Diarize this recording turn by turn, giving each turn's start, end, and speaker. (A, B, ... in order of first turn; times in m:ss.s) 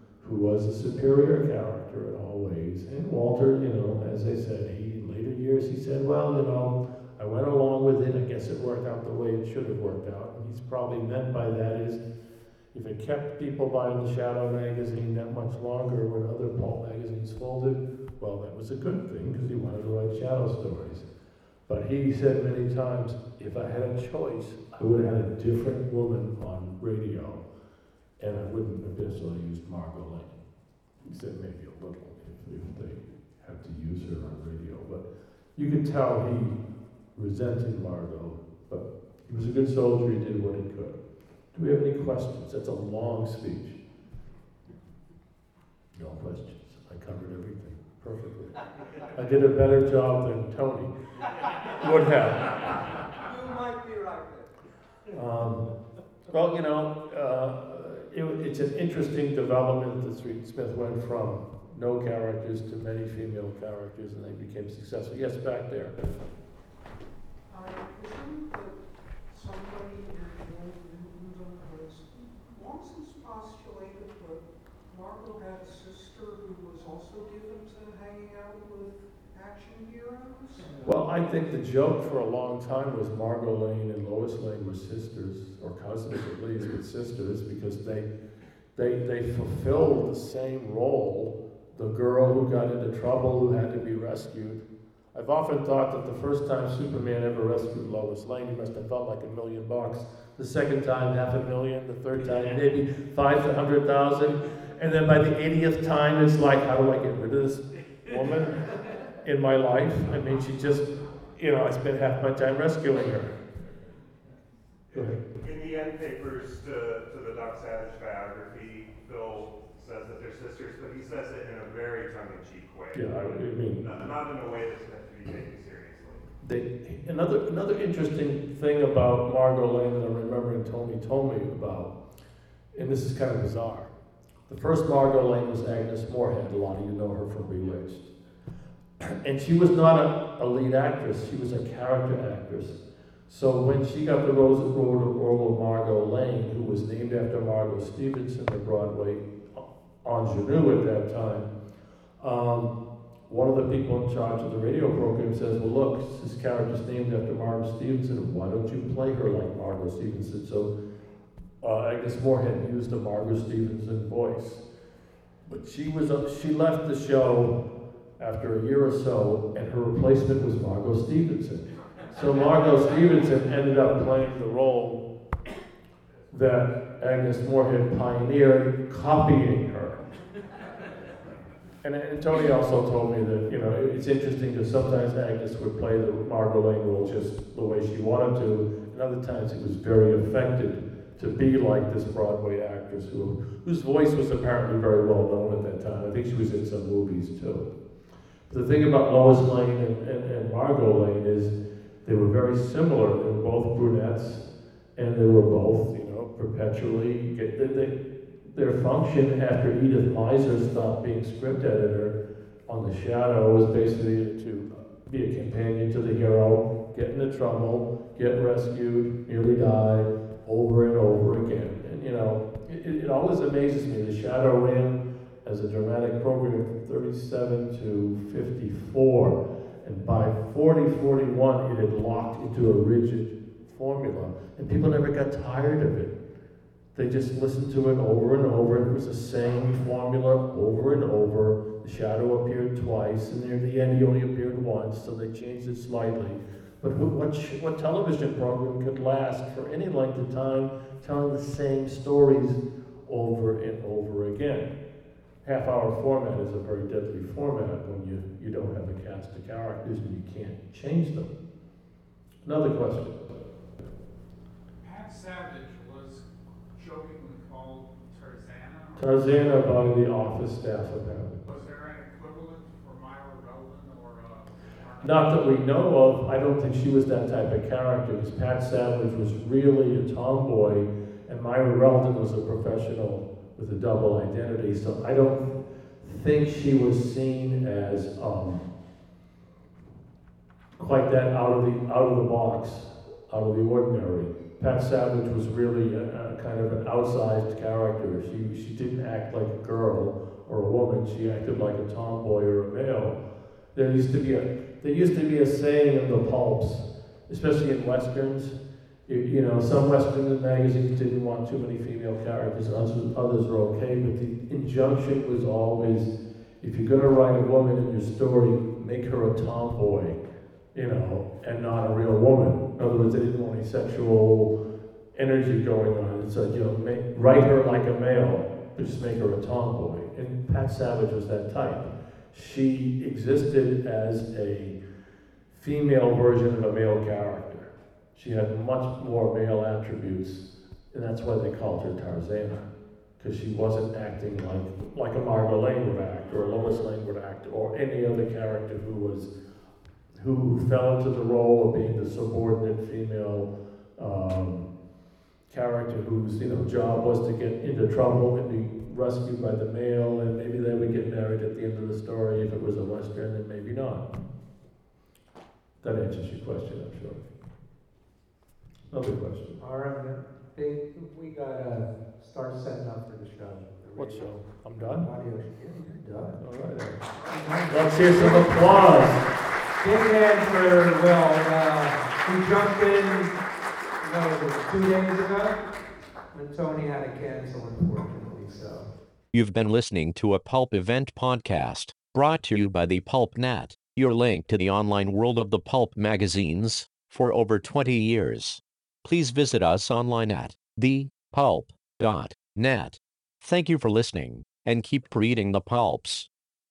0:00.2-0:12.0 A
0:12.7-0:21.1 A
0:21.7-0:27.4 A
0:28.2-0:30.4 A
0:31.0-0:36.6 A
0:37.2-0:41.0 A
0:41.5-0:43.8 A
0:46.0-0:50.9 A
0:51.6-0:52.9 A
0:53.2-0:54.5 B
0:55.1-0:55.7 A
0:56.3-1:06.0 A
1:07.5-1:20.7 B
1:20.8-1:28.1 A
1:28.8-1:53.4 A
1:54.9-1:55.2 A
1:55.0-2:06.3 C
2:02.9-2:04.1 A
2:06.4-2:11.9 A
2:12.7-2:13.9 A
2:14.5-2:18.1 A
2:19.0-2:31.5 A
2:32.2-2:32.7 A
2:33.3-2:40.7 A
2:41.6-2:44.6 A
2:45.5-2:47.6 A
2:48.2-2:55.0 A
2:56.3-3:00.0 A
3:01.8-3:17.7 A
3:18.5-3:21.5 A
3:22.0-3:32.2 A
3:32.7-3:56.2 A
3:57.0-4:14.7 A
4:15.4-4:21.3 A
4:22.4-4:23.2 A
4:24.8-4:29.1 D
4:29.0-4:31.4 A
4:31.5-4:35.4 D
4:35.0-4:48.7 A
4:50.8-5:03.2 A
5:03.8-5:20.2 A
5:20.7-5:24.5 A
5:25.2-5:34.8 A
5:35.5-5:49.3 A
5:50.2-5:54.7 A
5:55.5-6:04.0 A
6:05.8-6:07.2 A
6:08.9-6:09.6 A
6:09.6-6:16.4 E
6:14.0-6:15.1 A
6:16.4-6:17.1 A
6:17.2-6:19.0 E
6:17.7-6:19.3 A
6:19.8-6:23.4 E
6:24.0-6:25.6 E
6:26.3-6:28.9 E
6:29.3-6:46.3 F